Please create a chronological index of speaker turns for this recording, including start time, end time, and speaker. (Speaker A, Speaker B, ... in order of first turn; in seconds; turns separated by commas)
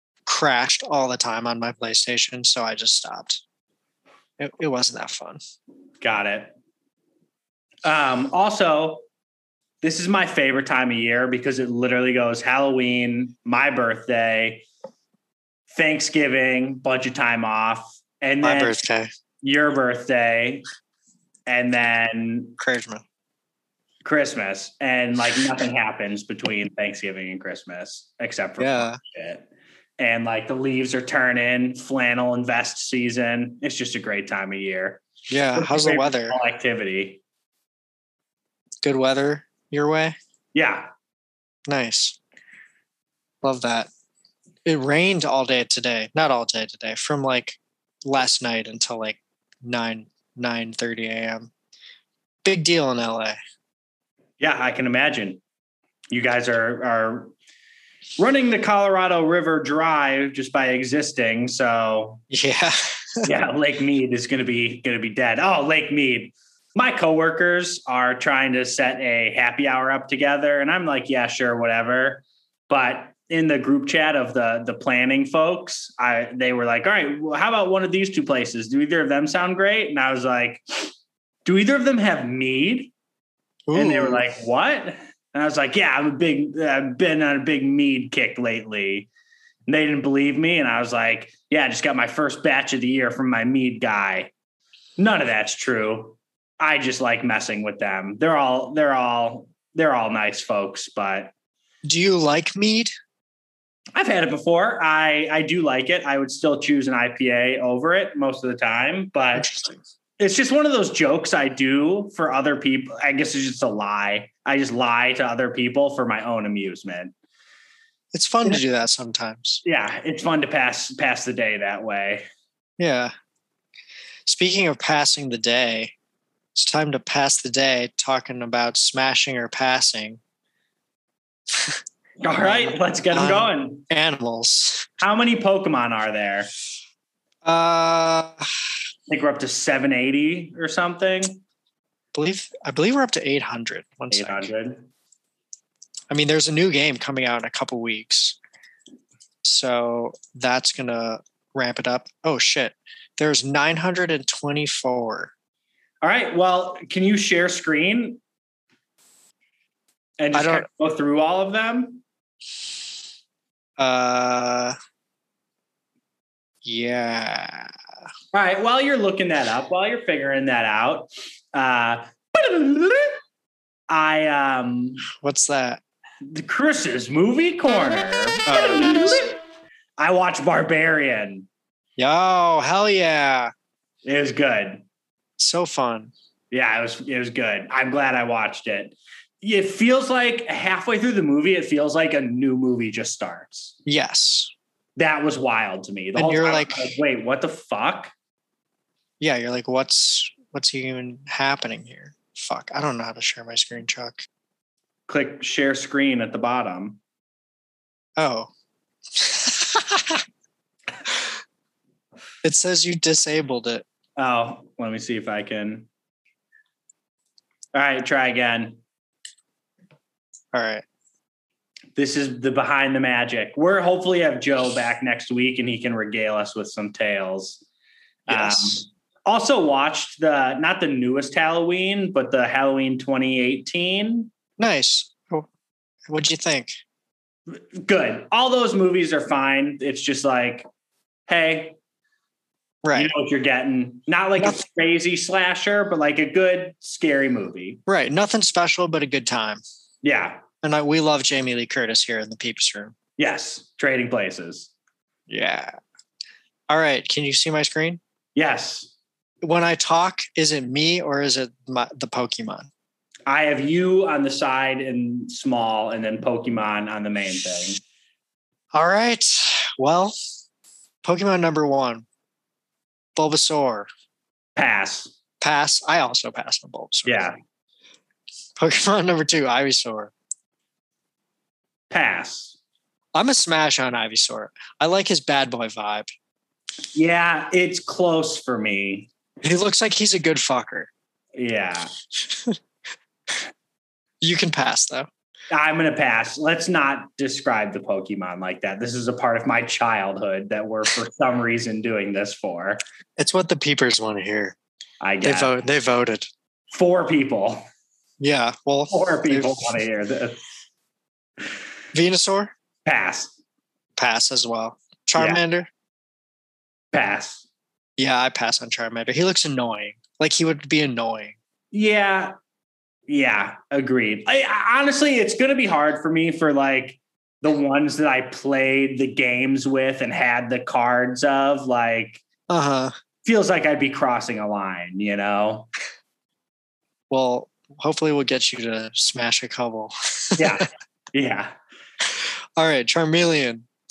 Speaker A: 0.3-3.4, Speaker A: 4.4-5.4, Speaker B: 6.0-6.5, Speaker B: 7.8-9.0, Speaker B: 9.8-14.7, Speaker B: 15.7-18.8, Speaker A: 18.4-19.1, Speaker B: 19.4-20.6, Speaker B: 21.5-22.6, Speaker A: 22.6-23.0, Speaker B: 24.1-29.5, Speaker A: 28.6-29.0, Speaker B: 30.0-35.0, Speaker A: 35.3-36.4, Speaker B: 35.5-37.2, Speaker A: 38.8-40.2, Speaker B: 40.5-40.9, Speaker A: 41.7-42.2, Speaker A: 43.4-43.9, Speaker A: 44.6-51.5, Speaker A: 52.5-53.4, Speaker B: 54.4-55.4, Speaker B: 56.1-57.3, Speaker B: 58.2-62.2, Speaker A: 62.3-63.3, Speaker B: 63.2-80.9, Speaker B: 81.5-82.9, Speaker A: 83.7-84.3, Speaker B: 83.7-89.1, Speaker B: 89.7-94.3, Speaker B: 95.0-101.3, Speaker A: 101.8-102.9, Speaker B: 104.0-109.5, Speaker A: 109.3-109.8, Speaker B: 110.2-117.1, Speaker A: 118.1-119.6, Speaker B: 119.6-122.3, Speaker A: 122.8-123.1, Speaker A: 124.3-125.9, Speaker A: 126.5-130.2, Speaker B: 132.2-133.8, Speaker A: 132.4-134.9, Speaker B: 135.0-136.5, Speaker A: 137.4-138.5, Speaker B: 139.1-141.4, Speaker A: 142.1-144.5, Speaker B: 144.1-144.9, Speaker A: 146.1-148.4, Speaker A: 149.4-155.3, Speaker B: 156.0-158.2, Speaker B: 160.2-162.0, Speaker A: 160.3-160.7, Speaker A: 163.8-164.8, Speaker A: 166.6-167.7, Speaker B: 168.3-173.2, Speaker B: 173.9-175.0, Speaker A: 175.1-175.8, Speaker B: 176.3-179.4, Speaker A: 178.5-179.2, Speaker B: 180.0-181.5, Speaker A: 182.0-183.5, Speaker B: 184.1-184.8, Speaker A: 185.4-186.1, Speaker B: 186.5-193.8, Speaker A: 193.9-194.5, Speaker B: 195.0-198.1, Speaker A: 196.2-196.9, Speaker A: 199.2-204.2, Speaker B: 205.1-207.0, Speaker A: 208.2-208.5, Speaker A: 209.1-210.2, Speaker A: 212.4-213.8, Speaker B: 214.2-215.9, Speaker B: 217.7-218.8, Speaker A: 220.5-220.8, Speaker B: 222.0-227.6, Speaker B: 228.3-234.3, Speaker A: 228.3-228.8, Speaker A: 234.6-235.5, Speaker A: 236.1-236.7, Speaker B: 237.6-240.7, Speaker B: 241.3-241.8, Speaker A: 242.8-243.1, Speaker B: 242.9-247.8, Speaker A: 247.9-249.6, Speaker B: 250.0-250.4, Speaker A: 250.6-252.9, Speaker B: 253.2-254.7, Speaker A: 255.3-255.7, Speaker A: 256.7-258.0, Speaker B: 258.4-258.9, Speaker A: 259.4-262.7, Speaker B: 263.3-267.8, Speaker A: 268.7-270.2, Speaker A: 271.0-272.1, Speaker A: 273.1-273.9, Speaker B: 274.6-275.1, Speaker A: 275.4-277.3, Speaker B: 277.1-277.4, Speaker A: 278.6-280.1, Speaker B: 281.9-282.6, Speaker A: 283.1-286.1, Speaker B: 286.9-289.1, Speaker A: 289.4-290.9, Speaker B: 291.4-291.9, Speaker A: 292.3-292.6, Speaker A: 294.2-295.1, Speaker B: 295.5-302.8, Speaker A: 303.2-304.6, Speaker B: 305.0-305.6, Speaker A: 305.2-306.3, Speaker B: 306.7-307.7, Speaker A: 308.2-309.7, Speaker B: 308.9-310.4, Speaker A: 311.9-312.5, Speaker B: 312.9-313.3, Speaker A: 314.0-315.7, Speaker B: 316.9-317.4, Speaker A: 318.0-321.4, Speaker B: 321.7-322.3, Speaker B: 323.1-332.2, Speaker A: 332.5-332.9, Speaker B: 333.2-335.7, Speaker A: 337.1-340.6, Speaker B: 340.4-341.5, Speaker A: 342.1-343.7